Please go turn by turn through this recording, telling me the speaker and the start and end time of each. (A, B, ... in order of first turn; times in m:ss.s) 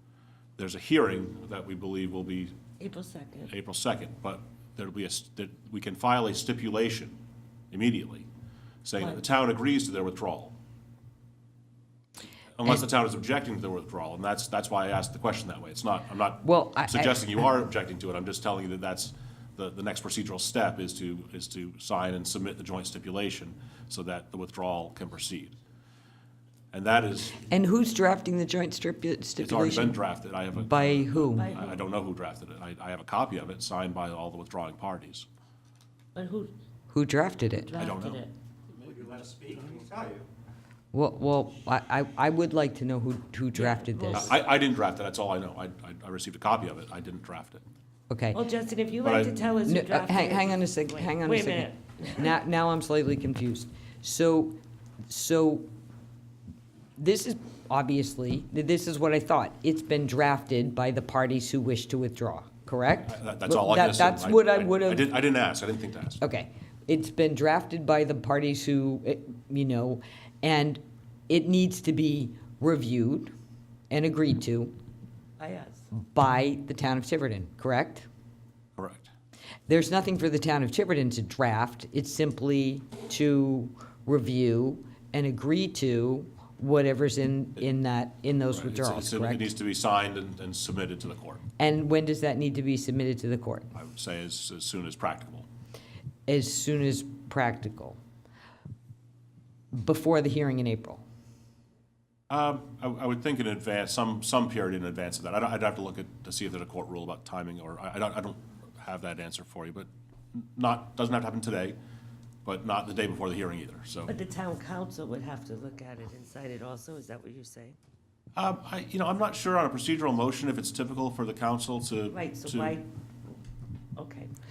0:00.6-0:02.6 A
0:02.8-0:03.5 B
0:03.5-0:07.2 A
0:07.7-0:08.3 A
0:08.8-0:10.6 A
0:12.6-0:25.6 A
0:16.4-0:17.4 C
0:26.7-0:27.4 A
0:27.5-0:30.0 C
0:29.4-0:35.3 A
0:30.6-0:31.5 C
0:31.4-0:31.8 B
0:36.2-0:36.5 B
0:36.9-0:37.7 C
0:37.6-0:38.3 B
0:37.8-0:38.2 A
0:40.9-0:44.4 C
0:43.5-0:44.4 B
0:44.1-0:47.6 A
0:48.1-0:48.4 C
0:48.3-0:52.3 B
0:49.0-0:49.3 A
0:49.7-0:54.6 C
0:55.1-0:55.7 C
0:57.0-1:05.1 C
1:03.0-1:06.2 A
1:06.2-1:13.3 C
1:13.9-1:14.7 C
1:15.4-1:15.9 B
1:16.0-1:18.1 C
1:18.8-1:19.1 A
1:19.7-1:29.5 C
1:28.5-1:31.4 A
1:31.6-1:33.7 C
1:33.8-1:35.5 A
1:36.3-1:38.0 C
1:39.7-1:41.0 C
1:42.3-1:51.8 A
1:52.4-1:54.1 A
1:54.1-1:57.8 B
1:58.4-2:02.8 A
2:02.1-2:02.9 B
2:04.0-2:04.3 B